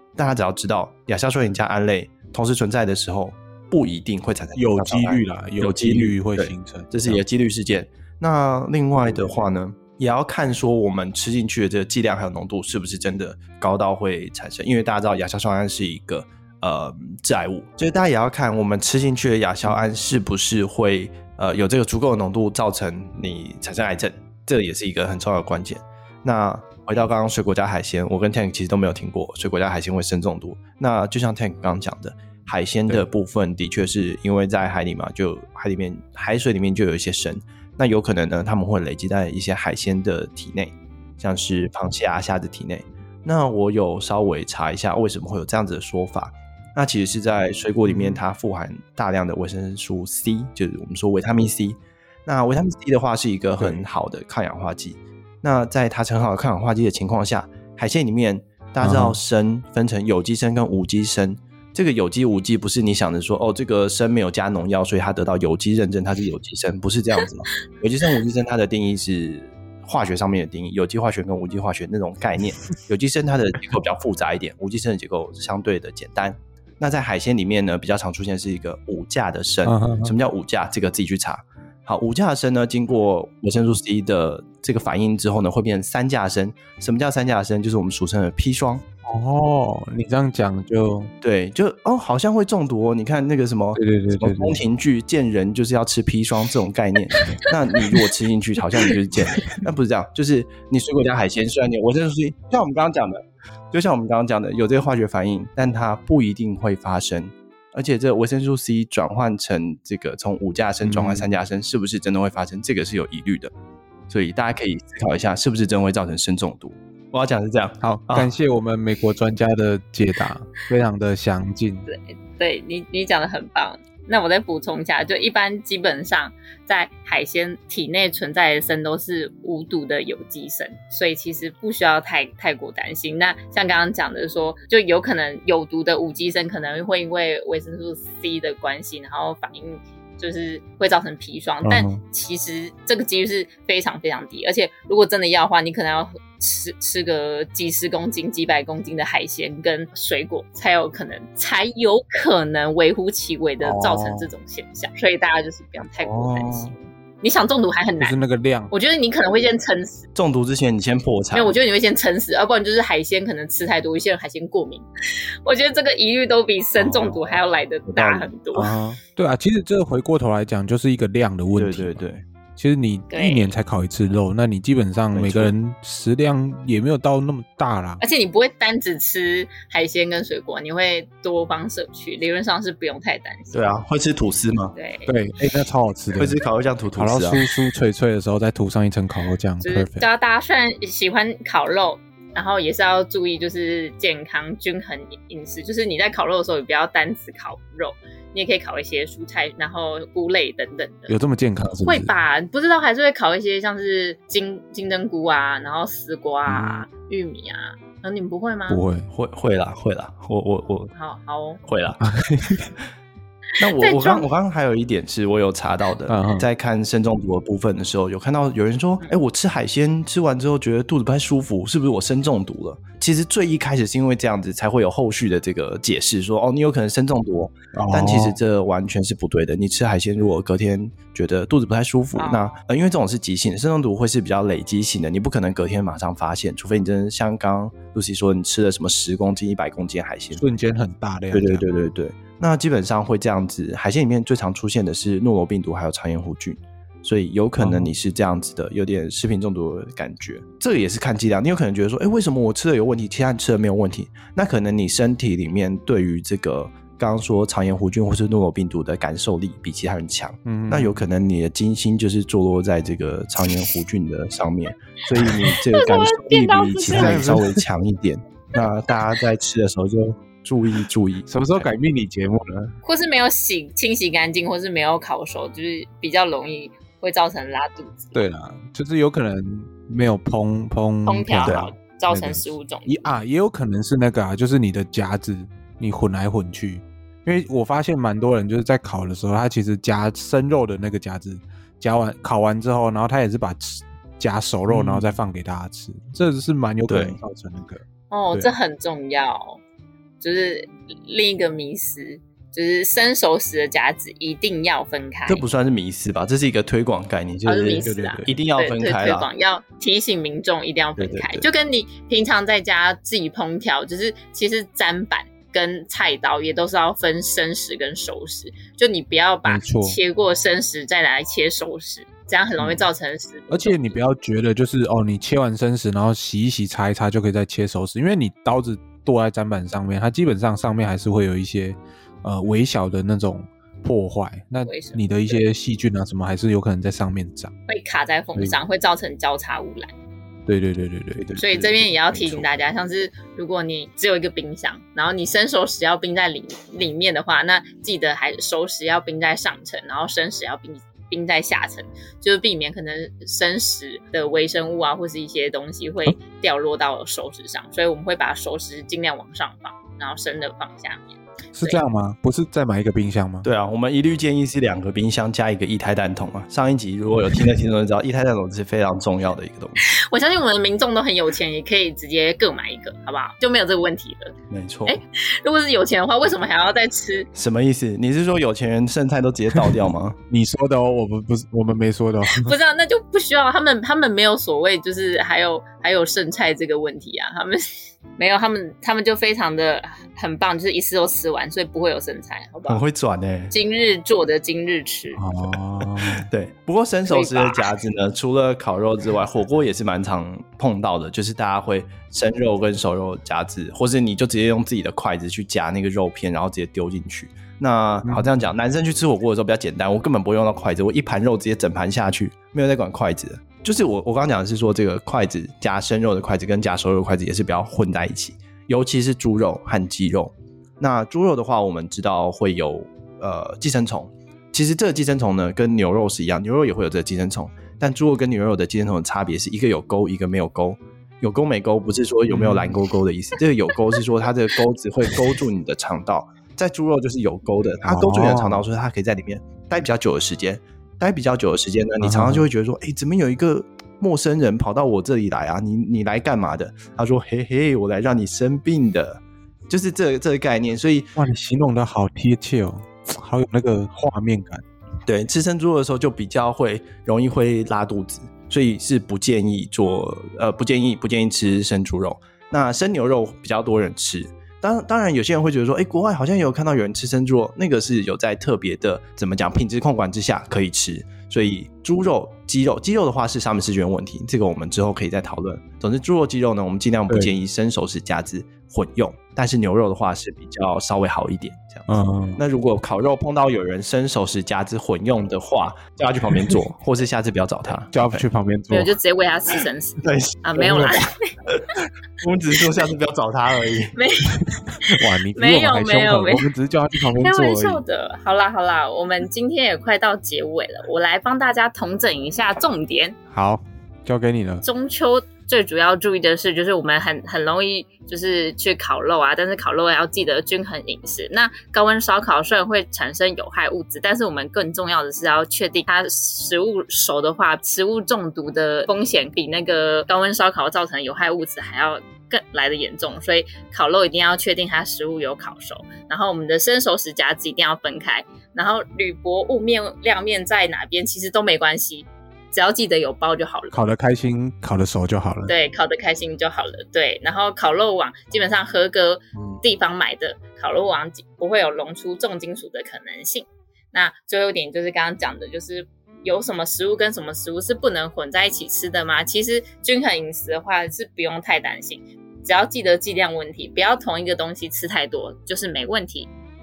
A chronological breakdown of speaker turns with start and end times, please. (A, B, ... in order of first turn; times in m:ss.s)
0:00.2-1:28.8 A
0:04.6-0:07.2 B
0:47.9-0:48.2 B
0:53.6-0:53.9 B
0:58.8-0:59.2 B
1:19.6-1:20.1 B
1:29.1-1:31.1 B
1:31.2-1:53.5 A
1:33.8-1:34.6 B
1:50.8-1:51.3 B
1:54.1-1:58.3 A
1:57.8-2:01.9 B
2:01.9-2:38.2 C
2:21.7-2:22.0 A
2:33.6-2:34.3 B
2:36.0-2:36.7 A
2:38.0-2:38.7 B
2:38.7-2:40.1 C
2:40.2-2:41.6 A
2:41.3-2:44.8 C
2:45.4-2:48.7 C
2:46.8-2:48.3 A
2:48.6-2:52.0 B
2:51.6-2:52.2 A
2:52.6-2:58.0 B
2:53.1-2:53.5 C
2:55.1-2:55.5 A
2:58.0-3:03.8 C
3:03.5-3:04.8 A
3:04.8-3:05.1 C
3:05.1-3:06.4 B
3:06.2-3:07.4 A
3:07.0-3:10.1 B
3:09.6-3:21.2 C
3:21.1-3:22.1 B
3:21.9-3:28.8 C
3:26.5-3:26.9 B
3:28.7-3:29.1 B
3:29.1-3:30.9 A
3:31.0-3:31.6 C
3:31.6-3:32.0 A
3:32.0-3:32.7 B
3:33.6-3:34.3 C
3:33.6-4:00.4 A
3:36.1-3:36.5 B
3:47.7-3:48.4 B
3:52.2-3:52.6 C
4:00.4-4:01.7 B
4:01.3-4:31.7 A
4:07.6-4:07.9 B
4:20.5-4:21.0 B
4:25.4-4:27.3 C
4:26.9-4:27.6 B
4:31.3-4:32.8 B
4:32.8-4:38.2 C
4:38.1-4:57.8 B
4:41.1-4:43.1 C
4:41.4-4:41.7 A
4:54.7-4:55.2 A
4:56.9-4:57.2 A
4:58.1-4:59.6 C
5:00.2-5:05.4 C
5:05.3-5:09.3 A
5:07.4-5:24.0 C
5:07.7-5:08.4 B
5:11.0-5:11.5 A
5:19.5-5:20.0 B
5:23.5-5:37.5 B
5:34.7-5:35.4 C
5:37.7-5:39.9 C
5:40.5-5:41.4 B
5:41.2-5:42.5 A
5:41.4-6:01.8 C
6:01.6-6:03.5 B
6:03.4-6:09.9 A
6:09.8-6:17.3 C
6:14.5-6:15.0 A
6:17.3-6:20.2 A
6:20.3-6:22.6 B
6:22.3-6:32.8 C
6:32.7-6:33.5 A
6:33.5-6:35.2 C
6:35.2-6:36.2 B
6:35.8-7:31.1 A
6:37.1-6:37.7 C
6:48.0-6:48.3 B
7:12.3-7:12.8 B
7:17.8-7:18.6 B
7:22.0-7:22.5 B
7:31.2-7:34.6 B
7:35.1-8:08.2 A
8:01.9-8:02.4 B
8:07.9-8:09.0 B
8:08.7-8:11.3 C
8:10.0-8:14.0 A
8:14.0-8:16.5 C
8:14.8-8:17.8 B
8:17.2-8:23.2 C
8:23.3-8:24.6 B
8:24.6-8:53.8 C
8:53.7-8:55.6 B
8:55.5-9:16.3 C